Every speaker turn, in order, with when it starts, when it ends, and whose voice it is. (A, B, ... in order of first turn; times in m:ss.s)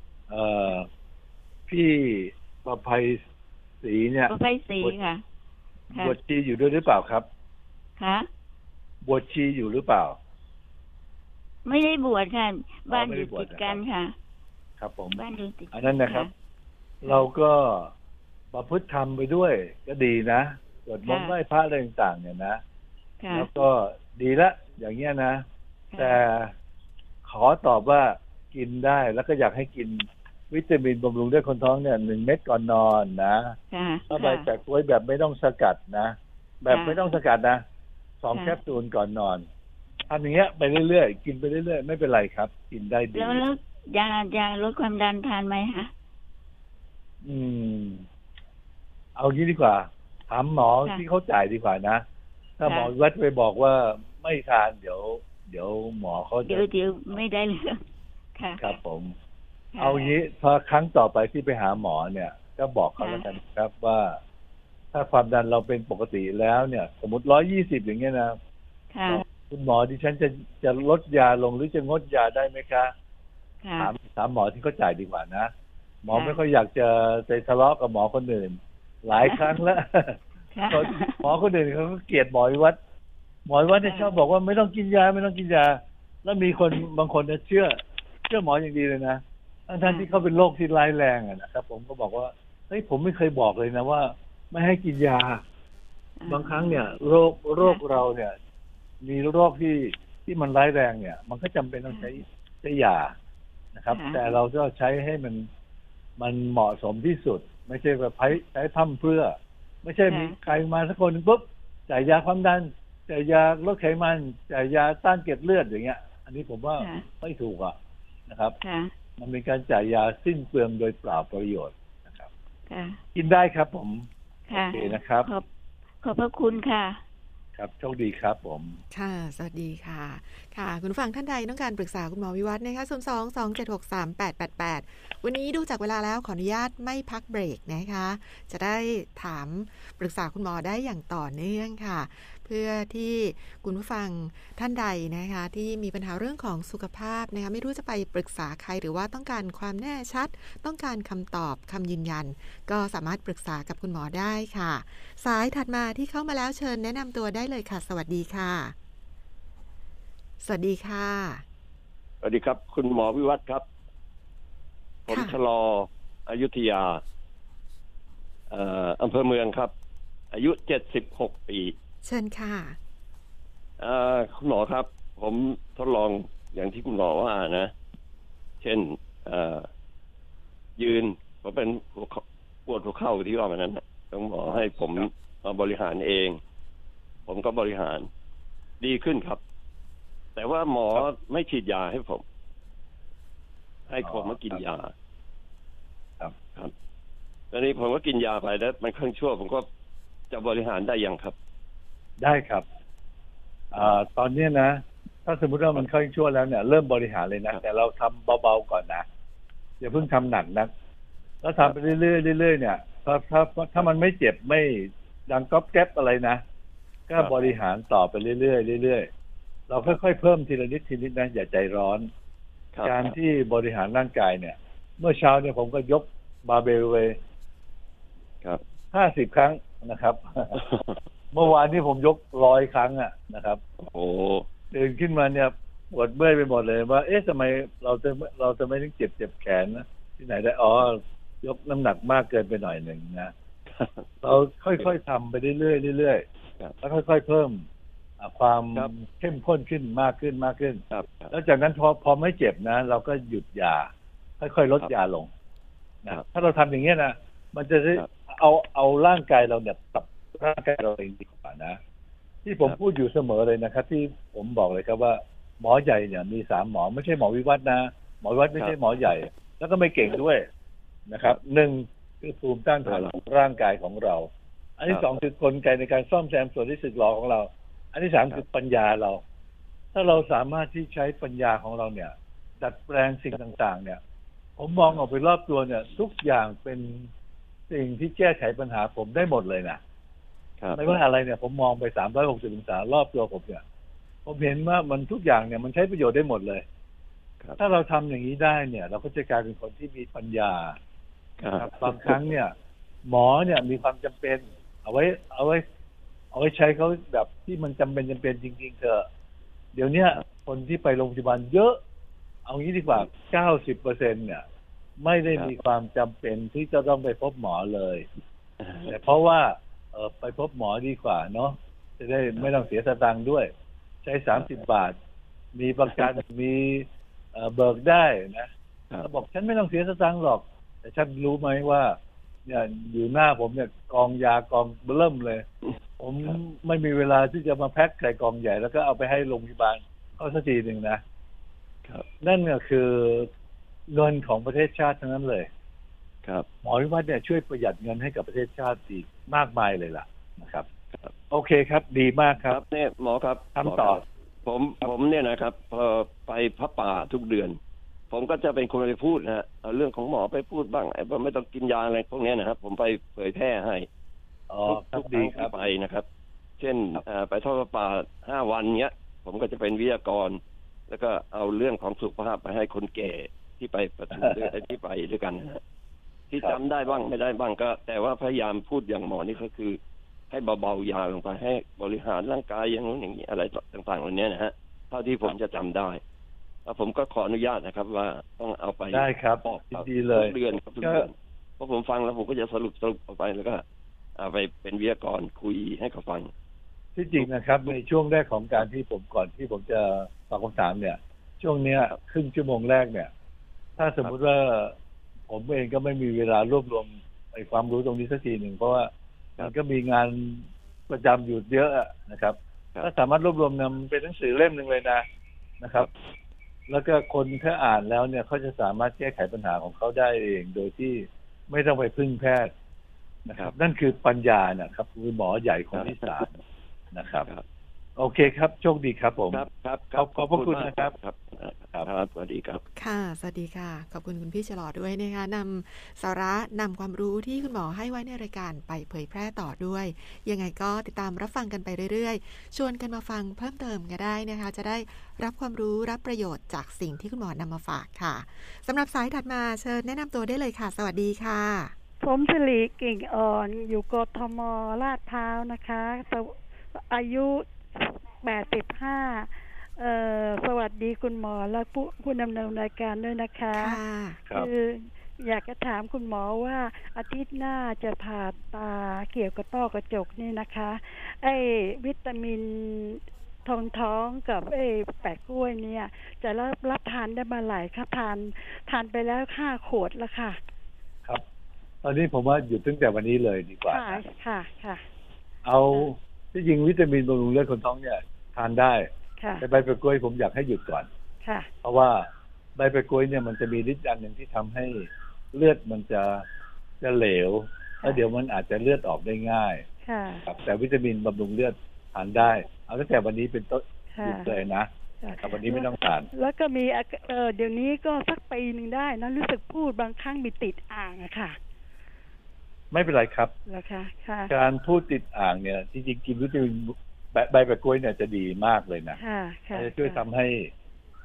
0:00.3-0:00.9 A
0:01.7-0:03.2 A
0:03.8-0:05.0 A
0:04.3-0:05.2 B
0:05.9-0:07.2 A
0:08.0-0:08.3 B
0:09.0-0:10.2 A
0:11.6-0:14.1 B
0:12.9-0:13.8 A
0:14.8-0:15.2 A
0:15.1-0:16.3 B
0:15.7-0:16.3 A
0:17.0-0:17.9 A
0:18.5-0:22.6 A
0:21.0-0:21.3 B
0:23.2-0:23.5 B
0:23.3-0:25.4 A
0:25.9-0:26.2 B
0:26.0-0:26.5 A
0:27.2-0:33.5 A
0:33.7-0:34.5 B
0:34.1-0:37.6 A
0:36.7-0:37.1 B
0:38.2-0:39.4 A
0:38.3-0:38.6 B
0:40.1-0:43.4 A
0:43.1-0:45.9 B
0:47.2-0:48.0 A
0:49.2-0:52.0 A
0:52.6-0:56.6 A
0:52.6-0:52.9 B
0:56.4-0:57.8 B
0:58.4-0:58.8 B
0:58.6-0:59.1 A
0:59.7-1:00.1 B
0:59.8-1:04.2 A
1:03.0-1:03.3 B
1:04.9-1:08.4 A
1:08.9-1:09.2 B
1:09.1-1:12.9 A
1:13.6-1:13.9 B
1:13.8-1:15.5 A
1:16.0-1:20.2 A
1:16.1-1:16.4 B
1:19.2-1:19.5 B
1:20.5-1:21.2 B
1:20.7-1:22.8 A
1:23.5-1:35.4 A
1:23.8-1:24.1 B
1:29.8-1:30.1 B
1:36.2-1:37.0 B
1:36.3-1:38.3 A
1:39.0-1:43.1 A
1:43.8-1:45.5 A
1:43.9-1:44.3 B
1:46.2-1:57.7 A
1:50.0-1:50.4 B
1:56.8-1:57.0 B
1:58.3-1:58.6 A
1:58.6-1:58.9 B
1:59.2-2:02.3 A
2:02.7-2:03.0 B
2:03.1-2:05.3 A
2:04.5-2:05.4 B
2:06.0-2:07.0 B
2:07.6-2:08.8 A
2:08.9-2:38.7 C
2:40.4-2:41.4 C
2:42.2-2:43.6 D
2:45.1-2:47.0 D
2:45.1-2:45.4 C
2:48.5-2:49.7 D
2:50.3-2:51.7 D
2:52.0-2:52.8 C
2:53.8-2:57.7 D
2:58.6-2:59.7 D
3:00.8-3:06.4 D
3:07.3-3:08.1 D
3:08.8-3:09.4 D
3:10.3-3:12.2 D
3:13.9-3:14.9 D
3:14.0-3:14.6 A
3:17.5-3:19.7 D
3:20.3-3:21.4 D
3:22.2-3:22.6 A
3:23.7-3:29.0 A
3:29.8-3:30.7 A
3:31.4-3:36.4 A
3:37.1-3:39.1 A
3:39.7-3:42.1 A
3:42.7-3:43.1 D
3:42.8-3:47.2 A
3:48.9-3:50.6 A
3:50.6-3:51.0 D
3:51.3-3:53.6 A
3:53.8-3:54.5 D
3:54.7-4:03.3 A
4:03.7-4:04.1 D
4:04.2-4:06.2 A
4:06.8-4:07.6 A
4:08.2-4:15.3 A
4:10.9-4:11.3 D
4:16.0-4:21.8 A
4:22.4-4:30.4 A
4:31.1-4:39.2 A
4:32.8-4:33.1 D
4:39.9-4:44.0 A
4:44.6-4:47.1 A
4:47.7-4:49.8 A
4:50.6-4:51.0 D
4:50.7-4:53.6 A
4:54.2-4:56.6 A
4:57.6-5:00.8 A
5:01.4-5:02.2 D
5:01.6-5:02.5 A
5:03.0-5:05.6 A
5:06.3-5:09.0 A
5:09.7-5:11.8 A
5:12.4-5:14.4 A
5:15.0-5:18.0 A
5:18.6-5:18.9 D
5:18.9-5:23.5 A
5:24.0-5:25.0 A
5:25.5-5:28.5 A
5:29.0-5:35.4 A
5:36.0-5:41.0 A
5:42.2-5:43.3 A
5:43.9-5:45.5 A
5:46.6-5:50.6 A
5:51.3-5:52.6 A
5:52.4-5:57.6 D
5:53.6-5:54.0 A
5:58.1-6:03.9 D
6:04.5-6:05.5 A
6:04.7-6:06.0 D
6:06.6-6:15.6 D
6:14.1-6:14.5 A
6:16.3-6:19.8 D
6:20.3-6:26.0 D
6:26.6-6:33.6 D
6:28.9-6:31.0 A
6:34.2-6:36.3 D
6:37.0-6:43.1 A
6:43.8-6:44.7 A
6:45.3-6:55.0 A
6:55.6-6:55.9 A
6:56.7-7:02.5 A
7:03.2-7:06.4 A
7:05.7-7:06.1 D
7:06.9-7:07.3 A
7:08.0-7:10.9 A
7:09.3-7:12.6 D
7:12.8-7:31.7 C
7:32.0-8:00.4 E
7:43.5-7:44.2 C
8:01.8-8:04.0 A
8:03.7-8:04.8 E
8:05.4-8:08.9 A
8:09.2-8:09.4 E
8:09.4-8:10.9 A
8:11.2-8:11.5 E
8:11.6-8:16.2 A
8:16.8-8:19.6 A
8:19.8-8:20.2 E
8:20.2-8:24.7 A
8:23.9-8:24.3 E
8:25.0-8:31.4 E
8:25.2-8:26.1 A
8:32.7-8:33.3 A
8:33.5-8:34.3 E
8:34.3-8:39.0 A
8:38.9-8:40.0 E
8:39.5-8:40.5 A